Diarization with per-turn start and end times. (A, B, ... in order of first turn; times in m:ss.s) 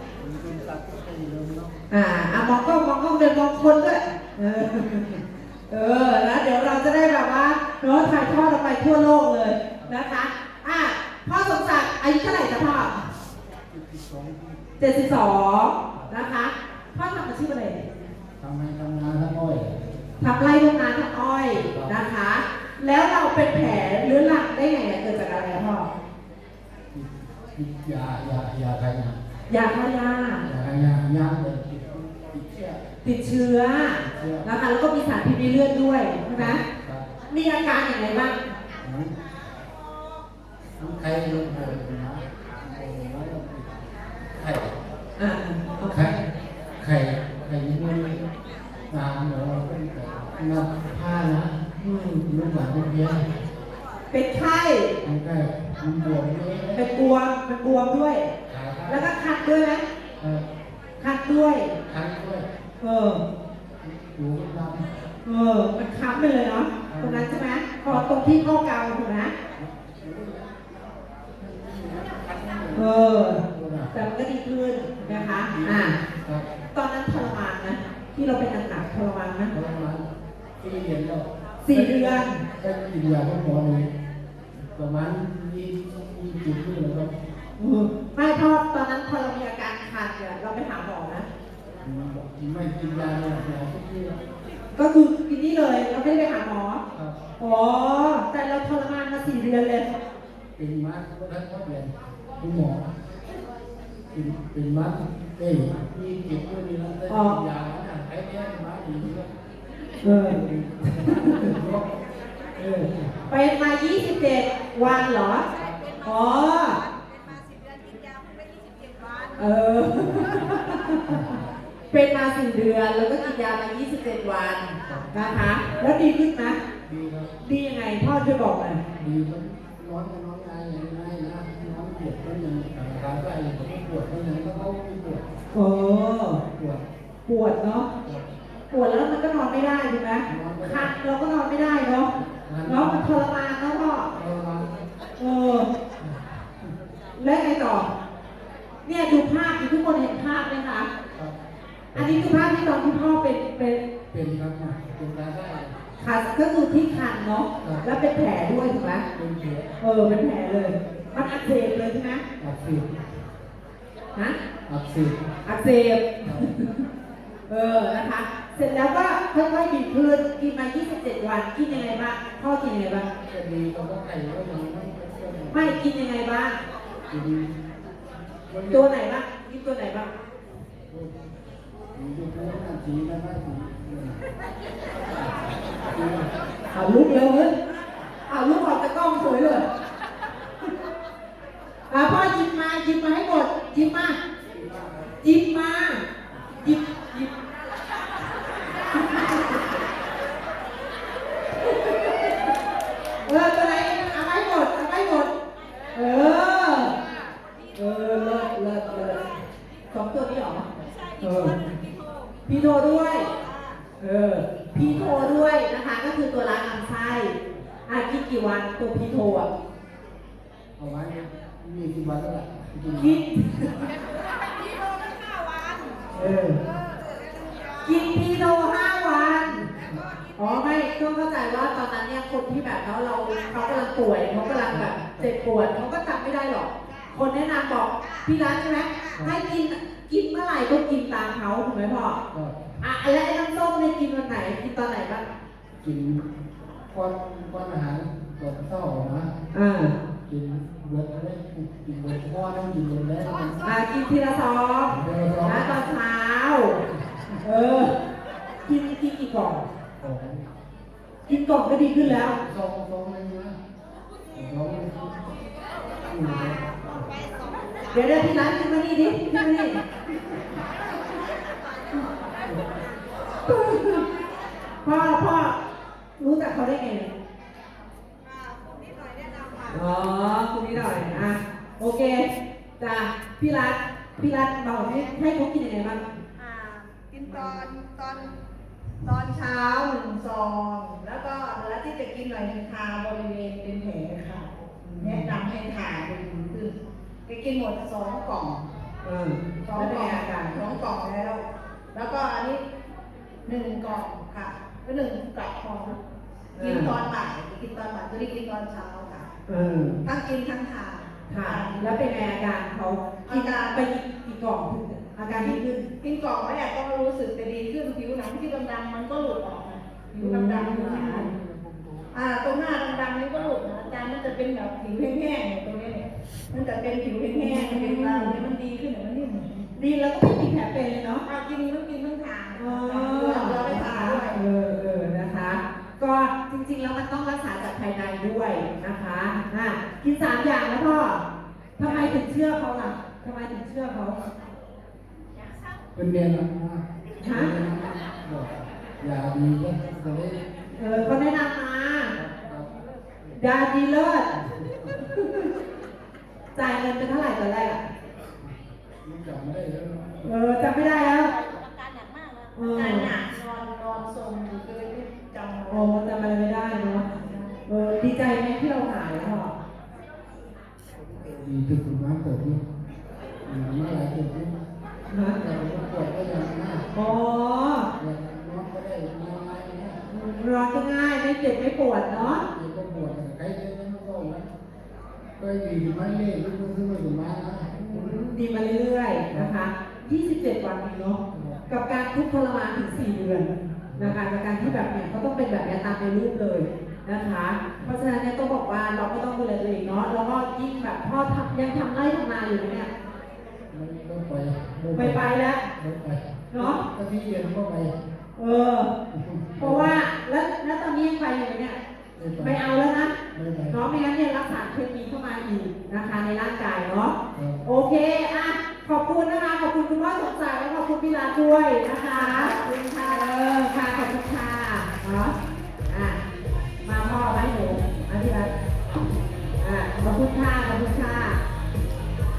0:00.2-0:01.8 A
0:01.9-0:05.2 B
0:05.7-0:13.1 B
0:13.7-0:14.6 A
0:14.8-0:17.9 B
0:18.4-0:20.2 A
0:20.2-0:25.9 B
0:21.5-0:22.0 A
0:26.9-0:29.2 A
0:29.5-0:30.4 B
0:30.4-0:32.8 A
0:33.0-0:36.6 B
0:34.0-0:34.5 A
0:36.4-0:37.1 A
0:37.3-0:38.4 B
0:38.8-0:39.1 A
0:40.8-0:43.8 A
0:44.4-0:44.7 A
0:45.2-0:46.3 B
0:45.8-0:46.2 A
0:46.8-0:48.2 A
0:48.9-0:51.6 A
0:51.8-0:52.2 B
0:52.2-0:53.3 A
0:54.1-0:54.9 B
0:55.0-0:56.8 A
0:56.8-0:58.3 B
0:58.5-0:59.1 A
0:58.9-0:59.8 B
1:01.0-1:01.7 B
1:01.9-1:02.5 A
1:02.8-1:03.2 B
1:03.8-1:04.9 A
1:05.2-1:09.3 B
1:06.9-1:07.3 A
1:07.8-1:08.1 A
1:09.6-1:10.5 A
1:11.4-1:12.9 A
1:12.7-1:16.0 B
1:13.5-1:13.9 A
1:15.0-1:16.5 A
1:16.7-1:19.5 B
1:19.5-1:20.1 A
1:20.6-1:23.9 A
1:21.6-1:22.3 B
1:24.6-1:27.1 A
1:27.6-1:31.3 B
1:31.8-1:34.2 A
1:34.8-1:36.8 B
1:37.4-1:39.9 B
1:40.6-1:42.8 A
1:44.1-1:49.3 A
1:47.1-1:47.4 B
1:50.0-1:51.9 A
1:50.0-1:51.5 B
1:52.6-1:55.5 B
1:52.9-1:53.3 A
1:54.8-1:56.0 A
1:56.0-1:56.8 B
1:59.4-2:01.2 B
2:00.0-2:01.4 A
2:01.9-2:06.6 B
2:04.8-2:05.6 A
2:06.8-2:07.3 A
2:07.4-2:08.8 B
2:09.0-2:15.2 A
2:15.5-2:16.4 B
2:16.6-2:16.8 A
2:17.3-2:17.9 B
2:18.7-2:22.1 B
2:20.3-2:20.9 A
2:22.2-2:23.3 A
2:22.7-2:24.1 B
2:24.1-2:24.7 A
2:25.2-2:25.7 B
2:26.0-2:26.7 A
2:27.2-2:27.9 B
2:28.9-2:30.9 B
2:31.9-2:32.5 A
2:32.0-2:33.8 B
2:34.1-2:35.8 A
2:36.0-2:39.0 B
2:37.6-2:37.9 A
2:39.1-2:39.7 A
2:39.8-2:42.2 B
2:42.4-2:42.9 A
2:44.7-2:45.2 A
2:45.4-2:46.7 B
2:46.2-2:46.5 A
2:47.5-2:53.1 B
2:48.5-2:48.8 A
2:53.3-2:55.8 A
2:55.5-2:56.6 B
2:57.1-2:57.6 A
2:58.5-2:58.9 A
2:58.7-3:00.1 B
3:01.9-3:04.3 A
3:05.2-3:06.3 A
3:06.7-3:07.5 B
3:08.3-3:09.6 B
3:11.9-3:14.2 B
3:14.5-3:15.2 A
3:15.2-3:16.0 B
3:16.3-3:16.8 A
3:16.6-3:17.3 B
3:19.0-3:19.4 B
3:21.6-3:22.4 B
3:23.2-3:25.3 B
3:25.9-3:26.9 B
3:27.8-3:29.3 B
3:29.9-3:30.7 B
3:31.2-3:31.6 B
3:32.5-3:33.3 B
3:34.0-3:37.4 B
3:34.8-3:35.1 A
3:37.9-3:39.5 B
3:40.8-3:43.2 A
3:43.0-3:43.9 B
3:46.2-3:46.5 A
3:46.2-3:46.6 B
3:47.8-3:49.7 B
3:49.7-3:50.0 A
3:50.4-4:02.2 B
3:54.7-3:55.3 A
4:02.3-4:02.8 A
4:02.8-4:05.2 B
4:05.8-4:06.3 A
4:06.9-4:09.3 A
4:09.5-4:09.9 B
4:10.3-4:13.7 A
4:13.6-4:16.8 B
4:14.9-4:15.8 A
4:17.2-4:17.4 A
4:17.4-4:17.9 B
4:18.7-4:19.7 B
4:20.0-4:20.5 A
4:21.3-4:22.4 B
4:22.0-4:23.6 A
4:24.3-4:25.2 A
4:26.1-4:27.1 A
4:27.9-4:29.8 B
4:33.5-4:34.0 B
4:34.8-4:35.6 B
4:36.2-4:37.1 B
4:39.7-4:46.0 B
4:40.7-4:41.3 A
4:46.4-4:48.3 C
4:49.0-4:56.8 C
4:54.8-4:55.3 B
4:57.3-4:58.6 C
4:59.0-5:00.6 B
4:59.6-5:02.6 C
5:03.4-5:06.0 C
5:06.6-5:09.3 C
5:06.6-5:07.0 B
5:09.5-5:10.0 B
5:10.0-5:12.2 C
5:11.3-5:15.9 B
5:13.3-5:13.8 C
5:15.3-5:21.3 C
5:20.2-5:21.3 B
5:21.0-5:22.2 A
5:22.1-5:29.7 C
5:22.8-5:24.4 A
5:27.3-5:28.4 B
5:29.8-5:31.2 B
5:31.3-5:34.4 C
5:32.6-5:41.2 B
5:41.8-5:44.2 B
5:41.8-5:42.2 C
5:45.9-5:51.2 A
5:47.2-5:47.5 B
5:50.8-5:52.1 B
5:52.1-5:52.7 A
5:53.3-5:54.3 B
5:54.3-5:55.1 A
5:55.1-5:55.5 B
5:56.6-5:57.8 B
5:58.4-6:00.4 A
6:00.2-6:01.3 B
6:01.1-6:06.1 C
6:02.6-6:03.1 B
6:05.7-6:07.0 B
6:07.0-6:07.6 C
6:07.7-6:09.5 B
6:11.4-6:12.6 A
6:13.4-6:14.6 A
6:15.1-6:15.4 B
6:15.4-6:17.1 A
6:16.9-6:17.9 B
6:18.0-6:20.0 A
6:20.1-6:22.4 B
6:22.1-6:24.5 A
6:25.4-6:28.2 A
6:27.7-6:42.9 B
6:31.3-6:31.6 A
6:33.9-6:34.9 A
6:43.7-6:48.0 A
6:45.0-6:45.6 B
6:46.5-6:46.8 B
6:48.4-6:48.9 B
6:49.1-6:50.0 A
6:49.6-6:51.8 B
6:52.2-6:52.6 A
6:52.4-6:53.2 B
6:53.3-6:53.8 A
6:53.7-7:05.3 B
6:57.3-6:57.6 A
7:02.1-7:03.3 C
7:05.9-7:06.2 B
7:06.8-7:08.5 B
7:09.6-7:11.4 B